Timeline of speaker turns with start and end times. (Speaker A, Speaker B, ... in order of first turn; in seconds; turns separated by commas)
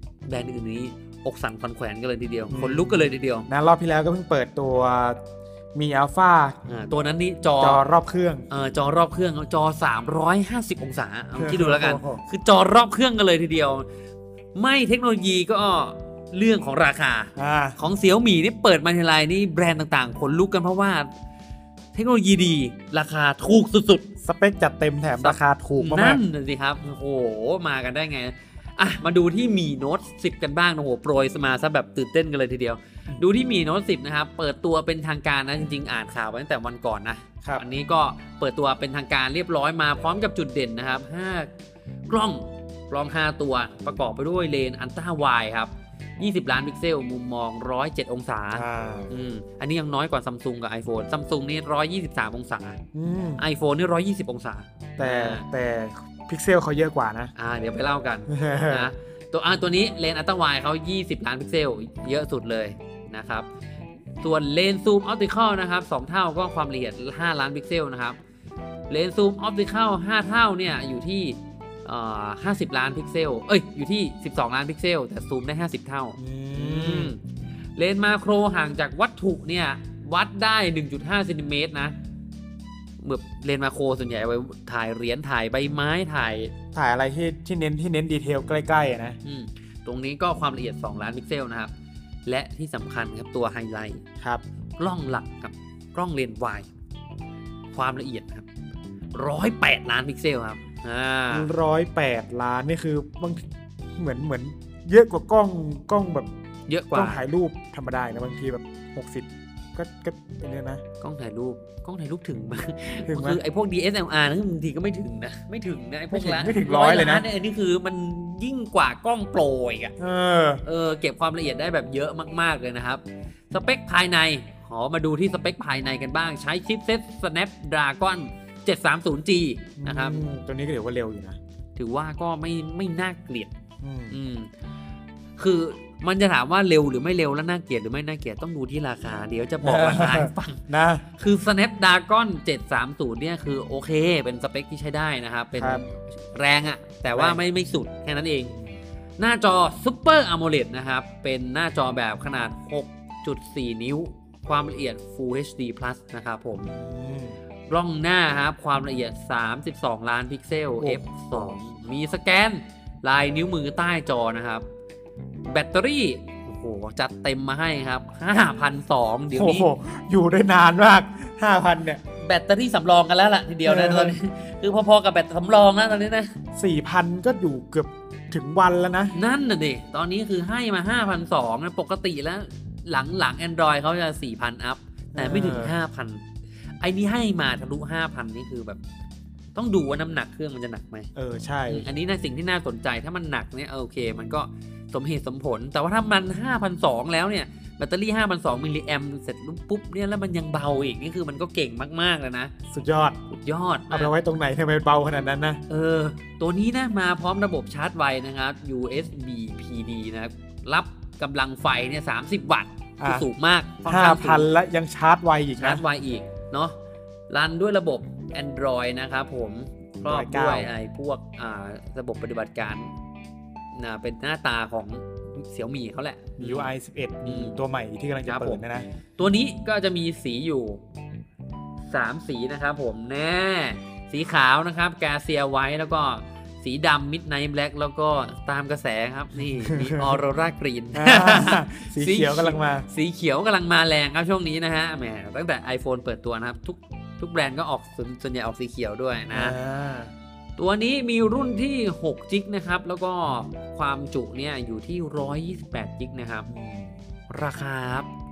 Speaker A: 0.3-3.5, Speaker B: 2.5-5.2, Speaker B: 5.7-6.6, Speaker A: 6.7-7.8, Speaker B: 7.6-8.5, Speaker A: 8.5-13.9, Speaker B: 11.4-12.2, Speaker A: 14.6-21.1, Speaker B: 17.4-17.8, Speaker A: 21.9-24.1, Speaker B: 24.2-26.2, Speaker A: 25.2-41.5, Speaker A: 42.1-52.8, Speaker B: 48.5-49.2, Speaker B: 52.9-53.4, Speaker A: 53.4-55.5, Speaker B: 55.0-57.3, Speaker A: 57.4-63.5, Speaker B: 58.3-58.9, Speaker A: 64.2-68.2, Speaker A: 68.9-77.2, Speaker B: 76.2-77.1, Speaker A: 77.8-82.0, Speaker A: 83.0-86.5, Speaker B: 86.7-89.2, Speaker A: 89.2-91.7, Speaker A: 92.3-94.0, Speaker A: 94.8-96.7, Speaker A: 97.7-98.5, Speaker A: 99.2-101.5, Speaker B: 101.3-103.4, Speaker B: 104.0-106.3, Speaker A: 106.7-107.2, Speaker B: 106.9-110.8, Speaker A: 111.0-119.9, Speaker B: 113.1-113.4, Speaker B: 116.1-117.3, Speaker B: 120.0-120.6, Speaker A: 120.6-130.2, Speaker B: 129.8-131.4, Speaker A: 131.8-133.5, Speaker B: 133.8-134.2, Speaker A: 134.1-134.5, Speaker A: 135.4-148.6, Speaker B: 139.6-141.0, Speaker B: 145.6-145.8, Speaker B: 147.1-147.4, Speaker A: 149.2-156.7, Speaker B: 156.6-157.4, Speaker A: 157.7-164.7, Speaker B: 160.8-161.6, Speaker A: 165.5-169.7, Speaker B: 169.3-172.0, Speaker A: 172.2-176.3, Speaker B: 173.7-174.2, Speaker B: 176.6-179.2, Speaker A: 179.1-186.2, Speaker B: 185.2-185.7, Speaker A: 186.8-188.8, Speaker A: 189.6-191.1, Speaker B: 191.2-191.9, Speaker A: 191.7-202.5, Speaker B: 202.7-203.2, Speaker A: 203.3-204.1, Speaker B: 203.9-205.6, Speaker A: 205.7-214.5, Speaker B: 213.0-213.3, Speaker B: 213.8-215.8, Speaker A: 215.6-216.8, Speaker A: 217.3-222.9, Speaker B: 220.0-220.7, Speaker A: 223.7-226.7, Speaker B: 226.4-228.9, Speaker A: 227.2-227.6, Speaker A: 228.3-228.6, Speaker A: 229.2-230.8, Speaker A: 231.9-249.6, Speaker B: 239.5-240.2, Speaker B: 240.9-242.9, Speaker B: 249.3-250.1, Speaker A: 250.6-256.5, Speaker B: 256.5-256.9, Speaker A: 257.3-258.1